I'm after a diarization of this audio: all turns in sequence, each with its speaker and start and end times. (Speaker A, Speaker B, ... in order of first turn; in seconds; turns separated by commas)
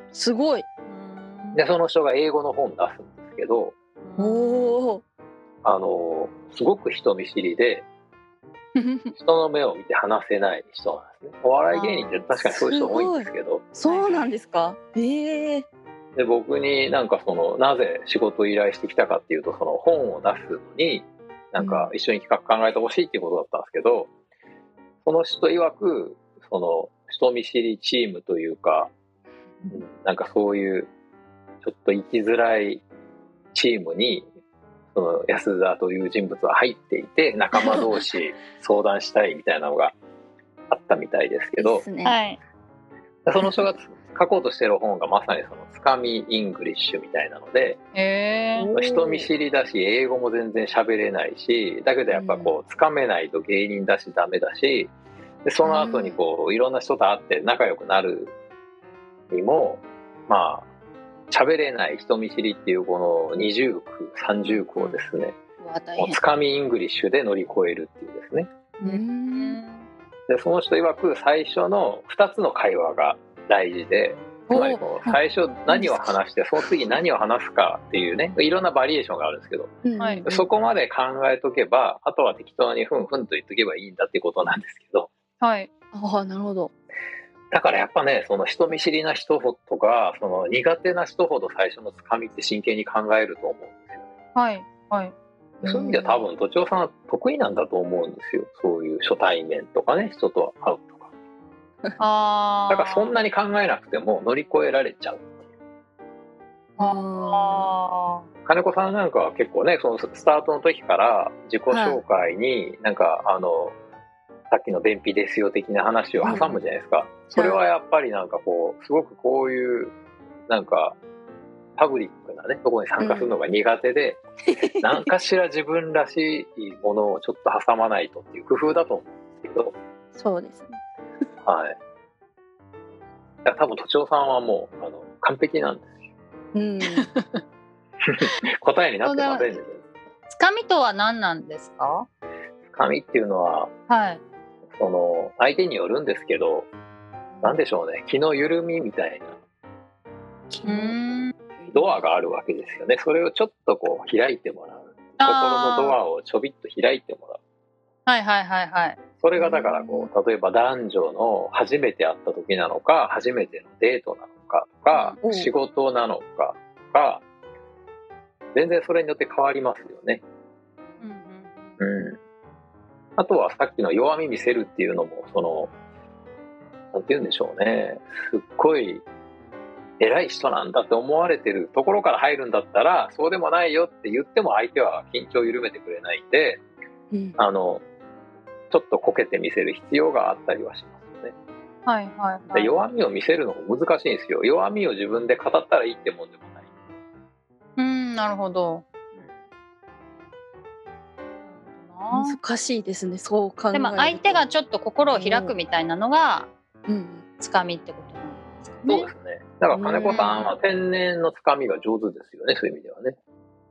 Speaker A: 0.1-0.7, Speaker B: 0.9-1.6, Speaker C: 1.5-3.8, Speaker B: 4.0-4.8, Speaker A: 4.2-5.0, Speaker C: 5.6-7.8, Speaker A: 8.8-9.1, Speaker C: 9.1-13.8, Speaker A: 11.7-15.7, Speaker B: 13.8-14.3, Speaker C: 16.1-24.1, Speaker A: 21.6-21.9, Speaker C: 25.0-28.9, Speaker C: 29.7-30.9, Speaker C: 31.6-32.8, Speaker C: 33.5-34.3, Speaker C: 34.9-40.0, Speaker C: 40.7-41.9, Speaker A: 41.6-42.2, Speaker B: 42.0-42.4, Speaker C: 43.2-47.8, Speaker B: 47.9-48.7, Speaker A: 48.6-49.3, Speaker C: 48.7-54.9, Speaker A: 52.1-52.5, Speaker C: 55.4-58.3, Speaker A: 55.6-56.2, Speaker C: 59.3-60.6, Speaker C: 61.3-65.4, Speaker B: 64.5-64.9, Speaker A: 65.6-66.2, Speaker C: 66.0-68.5, Speaker B: 68.8-69.9, Speaker A: 68.8-69.6, Speaker C: 70.3-79.7, Speaker A: 74.5-76.2, Speaker A: 79.8-80.5, Speaker C: 80.2-85.1, Speaker B: 85.4-85.7, Speaker A: 85.9-86.7, Speaker C: 87.5-94.0, Speaker B: 94.3-95.1, Speaker A: 95.6-96.2, Speaker C: 95.6-101.1, Speaker B: 102.0-103.1, Speaker C: 102.7-105.3, Speaker A: 106.8-107.7, Speaker B: 106.8-108.2, Speaker C: 108.5-113.7, Speaker A: 111.7-112.0, Speaker C: 114.5-119.9, Speaker A: 116.2-116.6, Speaker A: 117.3-117.6, Speaker C: 120.5-121.0, Speaker C: 121.8-124.2, Speaker A: 123.0-123.3, Speaker A: 124.5-124.9, Speaker C: 124.8-129.8, Speaker A: 130.1-130.8, Speaker C: 131.4-131.7, Speaker C: 133.4-135.9, Speaker A: 136.5-137.1, Speaker B: 137.0-137.4, Speaker C: 138.1-139.8, Speaker B: 139.0-139.6, Speaker B: 140.3-142.1, Speaker C: 142.7-143.7, Speaker B: 143.9-144.2, Speaker C: 144.8-146.7, Speaker A: 147.3-147.6, Speaker C: 147.4-149.3, Speaker A: 150.5-150.9, Speaker B: 150.7-151.3, Speaker A: 151.6-152.0, Speaker C: 151.7-157.4, Speaker B: 155.2-156.0, Speaker B: 158.1-159.0, Speaker C: 159.2-167.2, Speaker A: 159.3-160.1, Speaker B: 164.9-165.2, Speaker A: 165.2-165.5, Speaker C: 168.5-170.2, Speaker B: 171.0-171.7, Speaker C: 171.8-172.2, Speaker C: 173.2-175.7, Speaker C: 176.9-179.0, Speaker C: 180.0-186.6, Speaker A: 187.1-187.4, Speaker C: 187.4-187.8, Speaker C: 188.7-191.3, Speaker B: 191.8-192.7, Speaker C: 192.5-196.6, Speaker B: 197.8-198.8, Speaker B: 201.5-202.4, Speaker A: 202.1-204.4, Speaker B: 203.7-206.5, Speaker A: 205.1-205.5, Speaker A: 206.9-207.2, Speaker B: 207.4-209.1, Speaker C: 208.8-213.2, Speaker A: 209.7-210.2, Speaker B: 210.0-210.5